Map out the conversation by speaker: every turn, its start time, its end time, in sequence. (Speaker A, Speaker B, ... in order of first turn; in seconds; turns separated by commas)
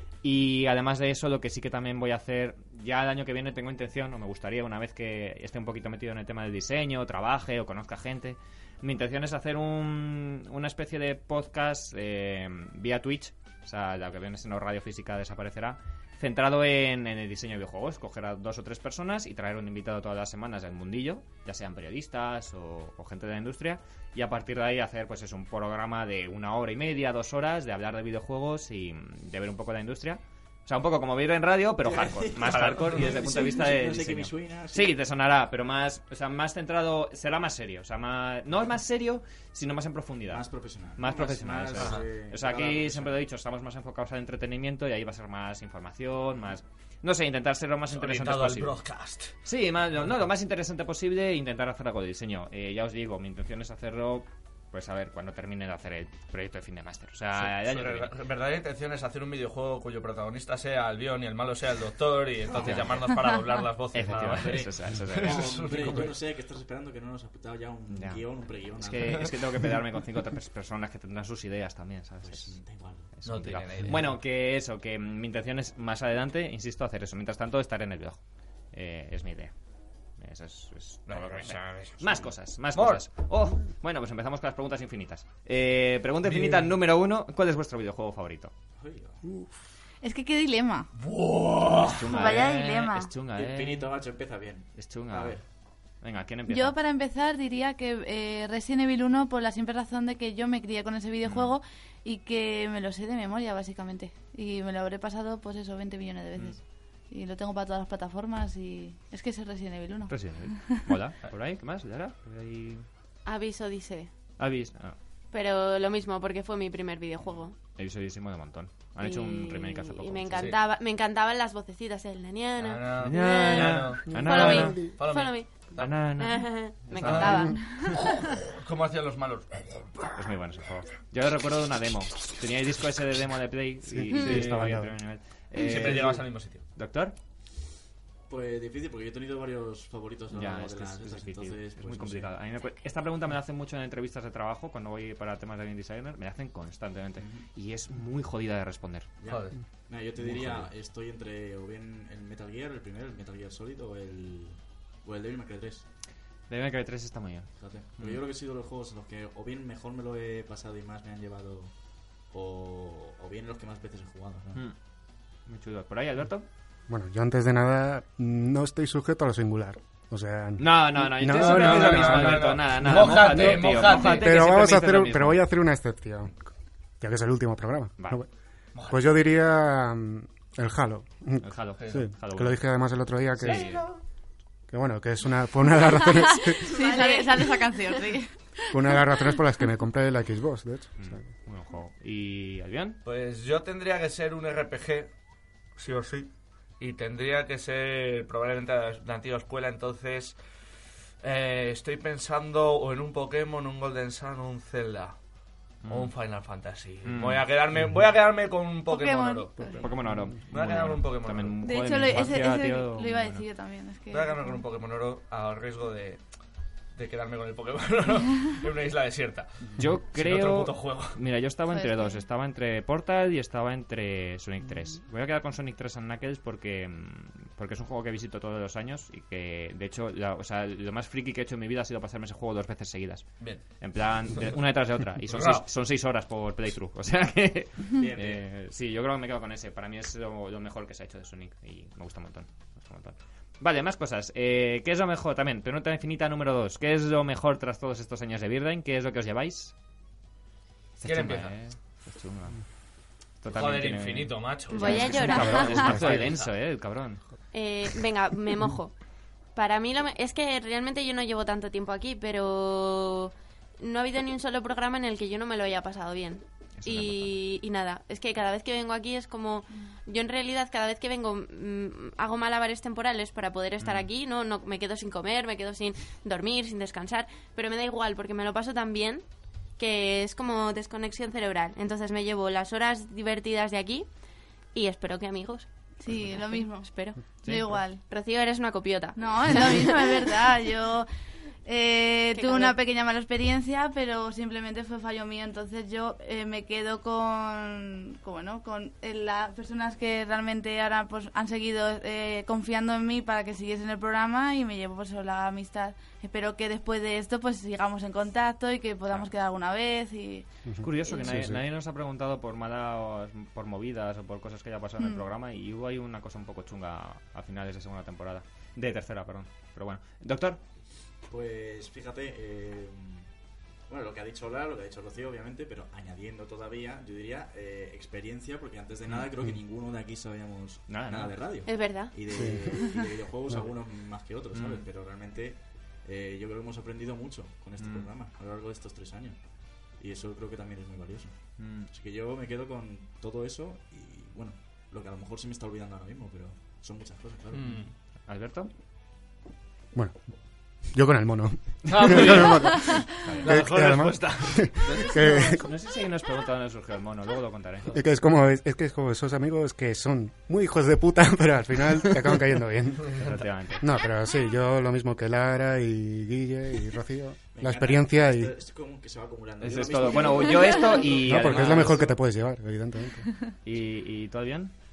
Speaker A: 0.2-40.5, Speaker B: 31.8-35.0, Speaker C: 32.4-33.1, Speaker B: 40.3-43.2, Speaker A: 41.0-48.8, Speaker C: 41.8-42.0, Speaker C: 47.9-49.3, Speaker A: 49.5-58.1, Speaker C: 57.4-66.2, Speaker B: 62.5-62.9, Speaker A: 62.6-63.3, Speaker A: 63.9-65.9, Speaker B: 64.0-69.4, Speaker A: 67.9-72.5, Speaker B: 72.2-73.1, Speaker A: 73.2-78.2, Speaker C: 73.2-74.2, Speaker A: 78.7-79.5, Speaker A: 80.2-88.5, Speaker C: 81.1-83.1, Speaker C: 86.3-86.7, Speaker B: 88.8-89.2, Speaker D: 90.0-90.9, Speaker C: 91.0-92.3, Speaker A: 91.8-93.9, Speaker D: 92.1-93.1, Speaker B: 93.3-95.4, Speaker A: 94.8-95.4, Speaker A: 96.0-96.8, Speaker D: 96.5-110.9, Speaker A: 101.2-101.5, Speaker A: 110.1-112.9, Speaker E: 113.2-114.1, Speaker A: 114.4-115.0, Speaker E: 115.3-117.6, Speaker A: 117.7-120.5, Speaker E: 119.0-127.8, Speaker C: 120.3-120.6, Speaker C: 122.6-126.0, Speaker A: 123.0-125.0, Speaker A: 125.8-127.5, Speaker C: 126.9-130.1, Speaker D: 127.4-128.0, Speaker A: 130.2-137.2, Speaker F: 133.9-134.9, Speaker C: 134.2-134.5, Speaker C: 135.5-136.6, Speaker B: 138.3-142.3, Speaker A: 140.3-149.1, Speaker B: 147.2-147.5, Speaker B: 149.2-155.9, Speaker C: 149.3-149.6, Speaker A: 150.2-150.7, Speaker A: 156.5-158.2, Speaker B: 157.6-161.7, Speaker B: 162.3-164.7, Speaker A: 165.4-166.5, Speaker F: 166.9-176.4, Speaker A: 170.6-175.4, Speaker C: 171.3-174.5, Speaker F: 177.0-178.3, Speaker A: 178.0-178.2, Speaker C: 178.8-179.0, Speaker F: 178.9-183.8, Speaker A: 181.4-182.6, Speaker C: 181.8-182.1, Speaker A: 183.4-183.9, Speaker C: 183.4-183.9, Speaker F: 184.7-186.7, Speaker D: 186.6-189.0, Speaker E: 186.7-187.3, Speaker F: 188.7-191.2, Speaker A: 191.0-193.0, Speaker C: 193.1-195.1, Speaker C: 195.8-200.4, Speaker C: 201.2-205.2, Speaker A: 205.8-206.1, Speaker C: 205.9-209.8, Speaker A: 207.1-207.5, Speaker D: 208.9-209.9, Speaker A: 209.7-213.4, Speaker C: 210.5-211.6, Speaker D: 211.6-214.6, Speaker C: 214.1-216.2, Speaker C: 217.0-221.2, Speaker A: 219.8-249.7, Speaker D: 221.7-222.2, Speaker C: 233.4-233.7, Speaker C: 235.3-235.7, Speaker B: 237.9-238.4, Speaker A: 251.0-252.6, Speaker C: 251.0-251.5, Speaker A: 253.4-257.2, Speaker C: 253.5-256.5, Speaker E: 254.7-256.1, Speaker E: 257.5-258.9, Speaker E: 259.5-279.2, Speaker A: 266.8-267.3, Speaker A: 273.8-274.1, Speaker E: 279.8-284.1, Speaker E: 284.7-287.2, Speaker D: 286.0-288.0, Speaker A: 287.4-287.8, Speaker E: 288.0-290.4, Speaker D: 289.2-291.1, Speaker D: 291.6-310.5, Speaker E: 292.3-292.8, Speaker F: 310.7-311.6, Speaker A: 310.8-320.6, Speaker B: 321.3-323.3, Speaker B: 323.9-339.4, Speaker A: 330.9-331.5, Speaker E: 331.6-332.3, Speaker F: 332.3-332.8, Speaker A: 334.5-334.9, Speaker A: 337.8-338.1, Speaker B: 340.0-347.9, Speaker A: 341.6-341.9, Speaker C: 347.5-347.9, Speaker A: 348.3-348.7, Speaker F: 350.9-355.7, Speaker C: 351.9-355.4, Speaker A: 353.2-353.6, Speaker A: 354.9-358.0, Speaker F: 357.9-368.5, Speaker A: 363.2-363.9, Speaker B: 367.5-371.7, Speaker A: 369.6-372.1, Speaker F: 371.2-373.3, Speaker C: 371.4-372.1, Speaker A: 373.6-374.7